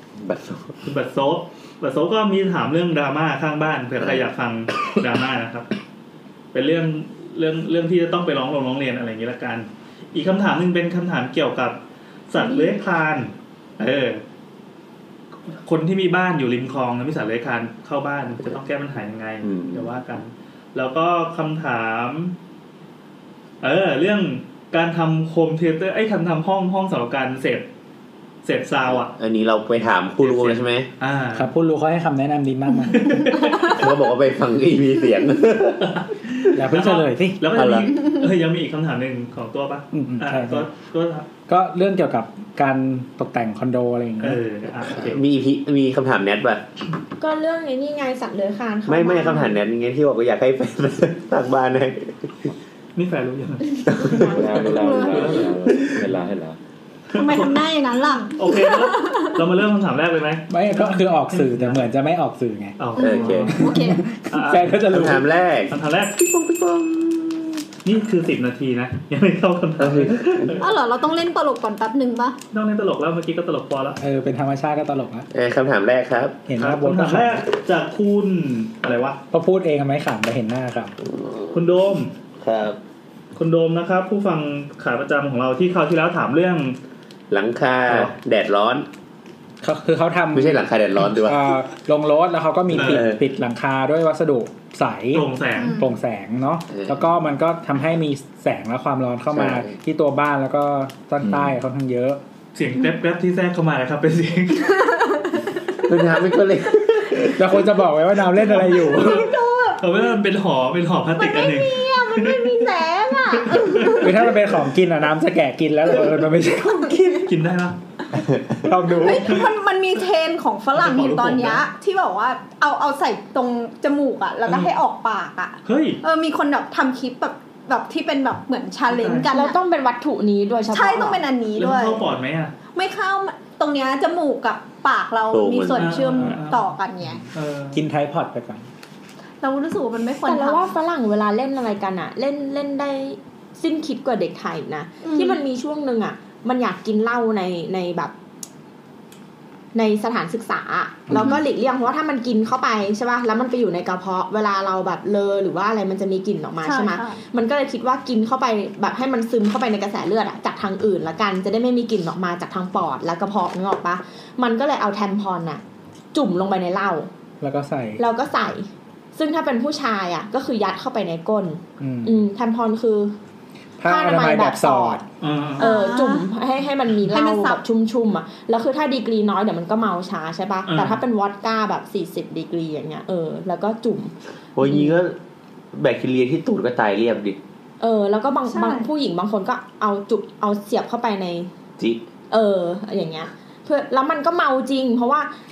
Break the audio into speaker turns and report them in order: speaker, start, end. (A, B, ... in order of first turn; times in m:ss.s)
0:00.2-0:00.8 A
0:00.8-0:05.7 B
0:04.0-0:04.3 A
0:06.5-0:11.8 B
0:12.3-0:14.2 B
0:12.4-0:12.7 C
0:15.6-0:22.3 B
0:19.4-0:19.9 A
0:23.6-0:27.7 B
0:28.4-0:29.1 B
0:28.9-0:30.8 A
0:30.2-0:31.5 B
0:31.3-0:33.4 D
0:32.9-0:33.8 B
0:33.6-0:36.0 A
0:35.8-0:41.3 B
0:36.5-0:37.4 D
0:37.5-0:38.0 A
0:39.9-0:40.7 D
0:41.5-0:44.4 D
0:44.2-0:45.2 B
0:45.0-0:46.6 A
0:47.2-0:49.6 E
0:48.9-0:52.2 A
0:53.0-0:55.9 B
0:53.8-0:54.5 A
0:54.2-0:56.6 F
0:54.6-0:55.5 C
0:57.1-0:57.6 B
0:57.1-0:59.4 C
0:58.4-1:01.9 B
1:00.5-1:02.8 D
1:02.8-1:03.6 B
1:03.0-1:03.5 A
1:03.0-1:04.0 C
1:03.5-1:05.3 D
1:04.3-1:05.1 B
1:04.9-1:07.6 A
1:05.7-1:06.2 B
1:07.8-1:10.6 B
1:09.8-1:10.6 A
1:10.6-1:12.4 C
1:12.5-1:14.0 B
1:14.0-1:15.3 D
1:15.3-1:16.4 A
1:16.5-1:17.4 D
1:16.6-1:19.2 B
1:19.3-1:20.9 D
1:21.1-1:21.5 A
1:21.5-1:22.1 B
1:22.4-1:22.8 A
1:23.4-1:26.8 B
1:27.3-1:28.8 A
1:27.9-1:28.1 B
1:29.6-1:42.2 D
1:30.3-1:31.4 A
1:32.7-1:33.2 A
1:32.7-1:33.0 B
1:35.1-1:35.8 B
1:35.6-1:35.9 C
1:36.7-1:37.0 A
1:39.3-1:39.7 A
1:42.5-1:44.9 B
1:45.0-1:45.4 C
1:45.8-1:47.6 A
1:47.3-1:49.3 D
1:48.5-1:52.6 B
1:49.0-1:49.8 C
1:51.2-1:54.1 C
1:53.4-1:54.1 B
1:53.9-1:57.3 D
1:57.2-1:57.8 B
1:58.1-1:58.6 A
1:58.6-1:59.5 D
1:59.0-2:09.6 C
2:00.7-2:01.6 B
2:04.4-2:04.7 B
2:05.6-2:06.0 B
2:08.9-2:09.3 B
2:09.3-2:11.2 E
2:10.7-2:12.0 C
2:11.6-2:12.5 B
2:12.7-2:17.2 C
2:15.3-2:16.1 A
2:15.8-2:17.8 B
2:17.7-2:18.7 D
2:19.4-2:20.7 C
2:20.2-2:28.1 E
2:25.0-2:25.4 C
2:29.7-2:45.6 E
2:31.1-2:31.3 D
2:31.1-2:31.4 C
2:36.6-2:37.2 C
2:46.1-2:47.1 E
2:47.4-2:48.0 D
2:48.0-2:53.1 E
2:51.8-2:52.2 D
2:53.8-2:55.0 D
2:53.8-2:55.0 E
2:55.2-2:55.7 B
2:55.6-2:56.3 C
2:55.6-3:05.0 E
2:57.1-2:57.6 C
3:00.7-3:01.0 B
3:04.6-3:05.2 A
3:05.7-3:07.4 A
3:07.8-3:11.5 E
3:08.5-3:08.9 C
3:12.3-3:15.3 E